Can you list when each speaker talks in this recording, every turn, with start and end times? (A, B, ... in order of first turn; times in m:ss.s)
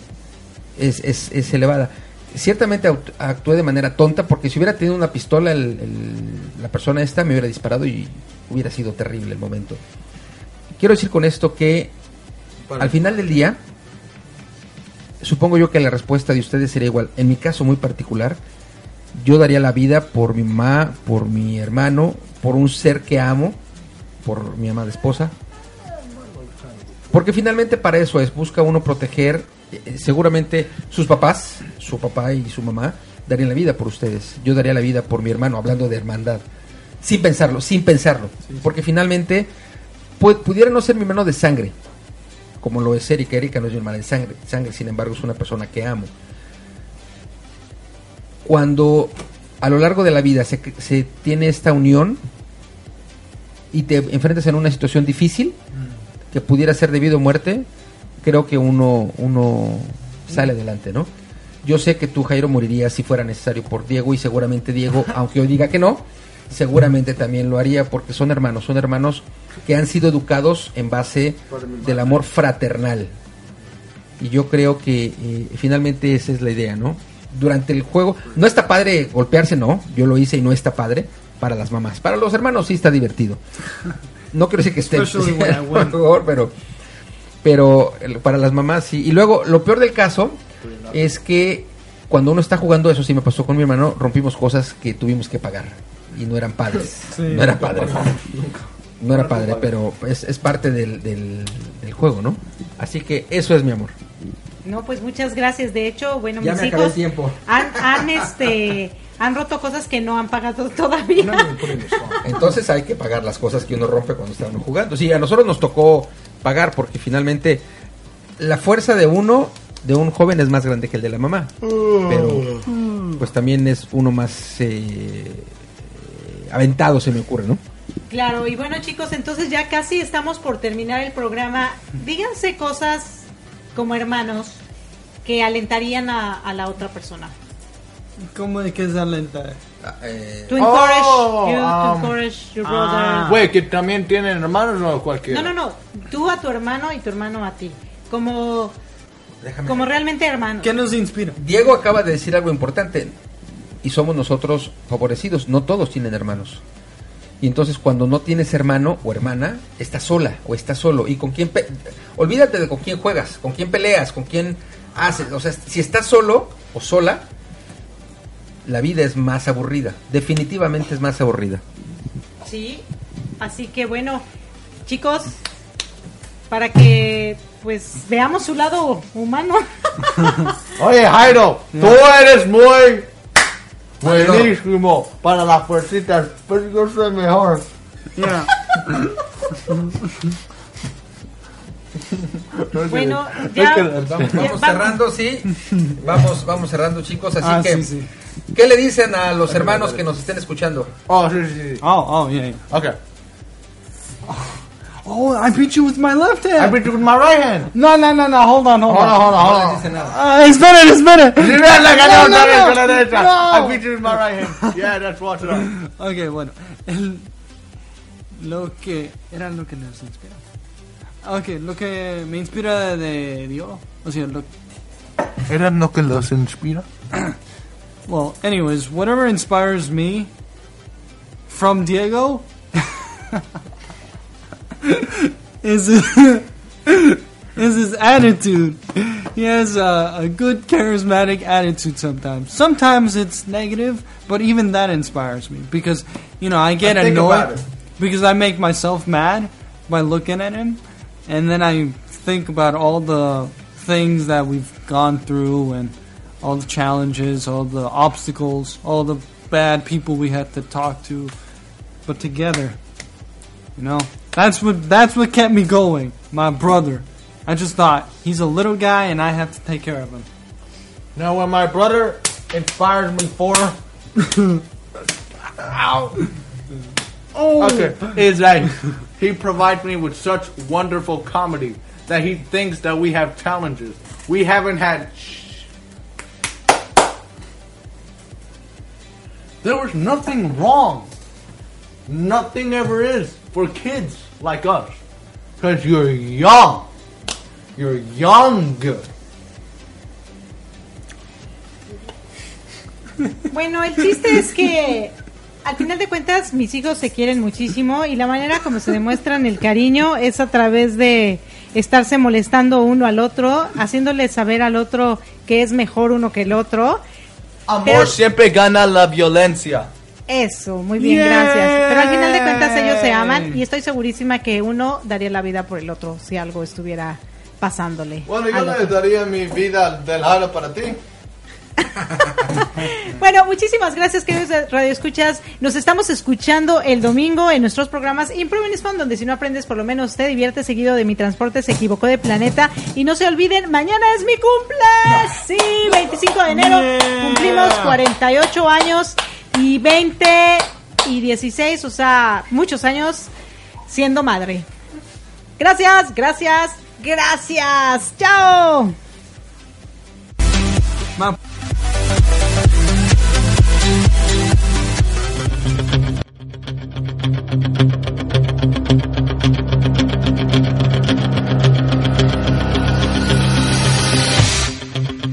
0:00.8-0:09.8 A
0:10.8-0:11.9 A
0:12.6-0:13.1 B
0:12.8-0:13.6 A
0:15.2-0:18.4 A
0:19.1-0:23.6 A
0:24.2-0:25.3 A
0:25.9-0:27.2 B
0:27.1-0:36.4 A
0:37.0-0:39.5 A
0:40.2-0:41.7 A
0:42.6-0:46.1 A
0:48.4-0:52.2 A
0:53.7-0:55.6 A
0:56.3-0:57.7 A
0:58.2-1:01.1 A
1:01.6-1:13.1 A
1:11.5-1:12.2 B
1:14.2-1:23.4 A
1:24.3-1:26.5 A
1:24.9-1:26.0 C
1:27.4-1:30.4 A
1:30.6-1:31.2 B
1:30.9-1:38.2 A
1:37.1-1:37.7 C
1:37.6-1:39.7 B
1:39.0-1:43.9 A
1:44.6-1:51.5 D
1:46.4-1:48.3 A
1:51.2-1:52.2 B
1:52.2-1:57.6 A
1:58.4-2:01.5 A
2:01.6-2:03.0 B
2:02.1-2:02.6 A
2:03.2-2:07.6 A
2:08.1-2:14.6 D
2:15.2-2:17.3 D
2:18.3-2:19.6 C
2:19.8-2:20.6 A
2:20.5-2:23.3 D
2:20.6-2:22.2 B
2:22.6-2:23.5 C
2:23.1-2:25.5 B
2:25.3-2:28.7 D
2:29.4-2:29.9 A
2:29.6-2:30.7 D
2:30.6-2:31.4 C
2:31.4-2:33.2 A
2:33.8-2:36.6 A
2:37.4-2:47.2 A
2:48.6-2:51.6 A
2:52.4-2:52.8 D
2:53.4-2:54.2 D
2:54.8-2:55.4 D
2:56.5-3:00.5 D
3:00.8-3:03.1 B
3:01.7-3:02.0 C
3:04.0-3:07.7 B
3:08.2-3:09.1 C
3:09.7-3:10.0 C
3:12.3-3:14.6 B
3:12.9-3:15.0 D
3:13.9-3:17.9 A
3:17.4-3:18.1 C
3:18.5-3:20.9 A
3:19.5-3:20.0 B
3:21.1-3:21.8 B
3:21.8-3:22.6 C
3:22.7-3:23.0 B
3:25.0-3:26.8 C
3:26.6-3:27.7 B
3:27.7-3:29.4 C
3:28.8-3:30.1 B
3:29.4-3:30.1 A
3:30.0-3:33.8 C
3:31.4-3:35.7 B
3:35.6-3:37.3 C
3:38.4-3:40.4 C
3:41.2-3:44.5 C
3:45.5-3:46.9 B
3:48.1-3:50.3 C
3:51.5-3:53.4 C
3:54.8-4:21.3 C
4:06.8-4:07.6 B
4:22.0-4:22.8 C
4:23.8-4:30.3 C
4:31.1-4:33.8 B
4:35.6-4:36.2 B
4:37.3-4:38.2 C
4:37.6-4:45.7 B
4:49.6-4:51.1 B
4:52.1-4:55.0 B
4:55.6-4:56.9 B
4:57.8-4:59.0 B
5:03.5-5:17.0 D
5:17.7-5:19.9 B
5:17.8-5:18.2 D
5:20.3-5:29.0 D
5:21.0-5:23.6 C
5:28.2-5:31.0 B
5:32.6-5:53.3 D
5:46.5-5:48.0 C
5:53.9-5:54.7 D
5:55.6-5:58.9 D